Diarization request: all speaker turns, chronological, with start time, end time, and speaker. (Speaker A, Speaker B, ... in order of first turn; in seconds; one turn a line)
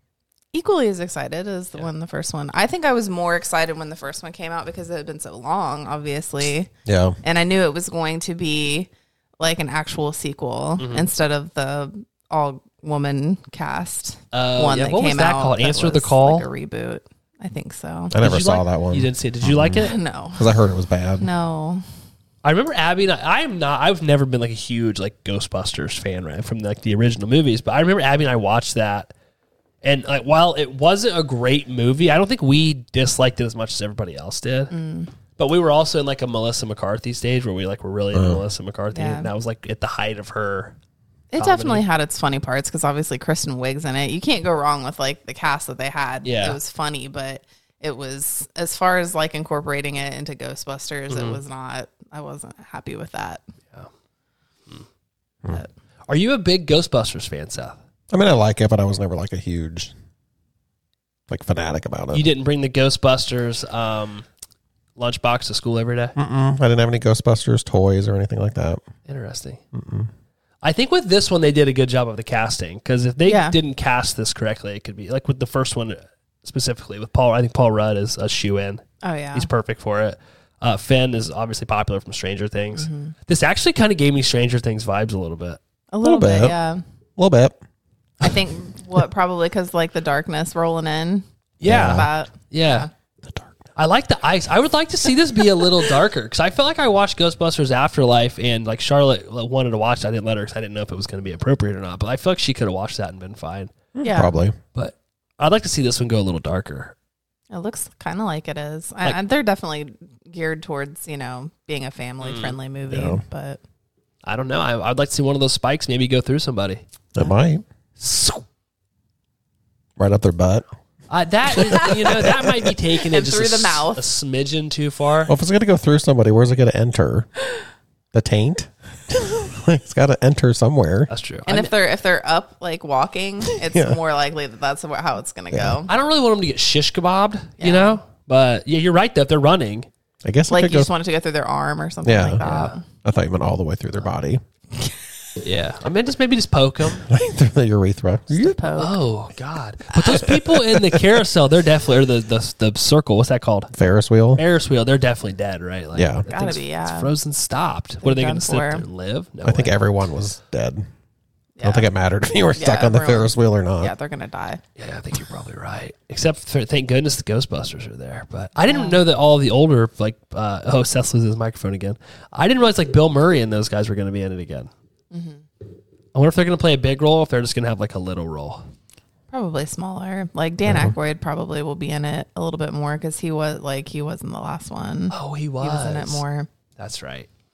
Speaker A: 0.5-6.7
Speaker B: 6.9-7.2
Speaker A: 7.2-18.1
Speaker C: 10.8-11.1
Speaker C: 14.3-16.5
Speaker B: 18.1-21.3
Speaker C: 18.1-20.0
Speaker A: 19.8-20.5
Speaker A: 21.2-21.8
Speaker C: 22.4-29.1
Speaker C: 29.8-34.7
Speaker A: 34.7-35.1
Speaker C: 35.4-40.8
Speaker B: 38.1-38.4
Speaker A: 38.9-39.3
Speaker A: 41.3-53.4
Speaker C: 41.4-41.9
Speaker C: 46.2-46.6
Speaker C: 51.1-51.4
Speaker C: 56.1-57.8
Speaker B: 58.1-59.9
Speaker B: 61.3-62.2
Speaker C: 62.1-64.2
Speaker C: 65.0-66.2
Speaker B: 66.2-68.8
Speaker C: 69.1-69.6
Speaker B: 69.7-70.1
Speaker C: 70.6-85.6
Speaker A: 73.3-73.6
Speaker A: 79.0-79.5
Speaker A: 82.8-83.2
Speaker A: 85.9-86.8
Speaker B: 86.0-86.6
Speaker B: 87.2-87.6
Speaker A: 88.2-92.9
Speaker C: 91.6-92.9
Speaker B: 91.6-92.1
Speaker B: 93.3-93.6
Speaker C: 93.8-103.7
Speaker B: 104.0-104.6
Speaker A: 104.0-104.4
Speaker C: 104.8-106.9
Speaker A: 107.5-113.6
Speaker C: 112.2-112.6
Speaker B: 112.9-113.2
Speaker C: 114.2-116.8
Speaker B: 117.2-117.6
Speaker C: 118.0-118.4
Speaker B: 120.0-120.7
Speaker C: 121.1-125.3
Speaker B: 121.6-122.4
Speaker A: 123.1-124.1
Speaker B: 125.3-127.3
Speaker B: 128.1-131.1
Speaker C: 131.1-131.7
Speaker A: 131.5-135.9
Speaker B: 133.7-134.0
Speaker B: 135.5-135.8
Speaker C: 135.9-139.9
Speaker A: 137.6-138.0
Speaker B: 140.2-140.9
Speaker A: 140.5-142.8
Speaker B: 142.0-142.4
Speaker C: 142.4-142.8
Speaker B: 143.0-144.4
Speaker C: 145.4-147.1
Speaker B: 147.0-148.7
Speaker A: 148.3-149.0
Speaker C: 148.8-153.7
Speaker B: 150.2-151.0
Speaker B: 153.7-154.4
Speaker C: 154.4-159.8
Speaker B: 155.9-156.3
Speaker A: 156.3-157.1
Speaker A: 158.0-158.8
Speaker B: 159.4-160.9
Speaker A: 161.6-161.9
Speaker B: 161.6-163.9
Speaker A: 162.6-164.6
Speaker C: 164.8-174.7
Speaker A: 168.6-169.0
Speaker A: 175.1-175.4
Speaker C: 176.1-178.7
Speaker A: 179.3-186.5
Speaker B: 180.7-180.9
Speaker C: 185.1-186.2
Speaker C: 186.8-187.3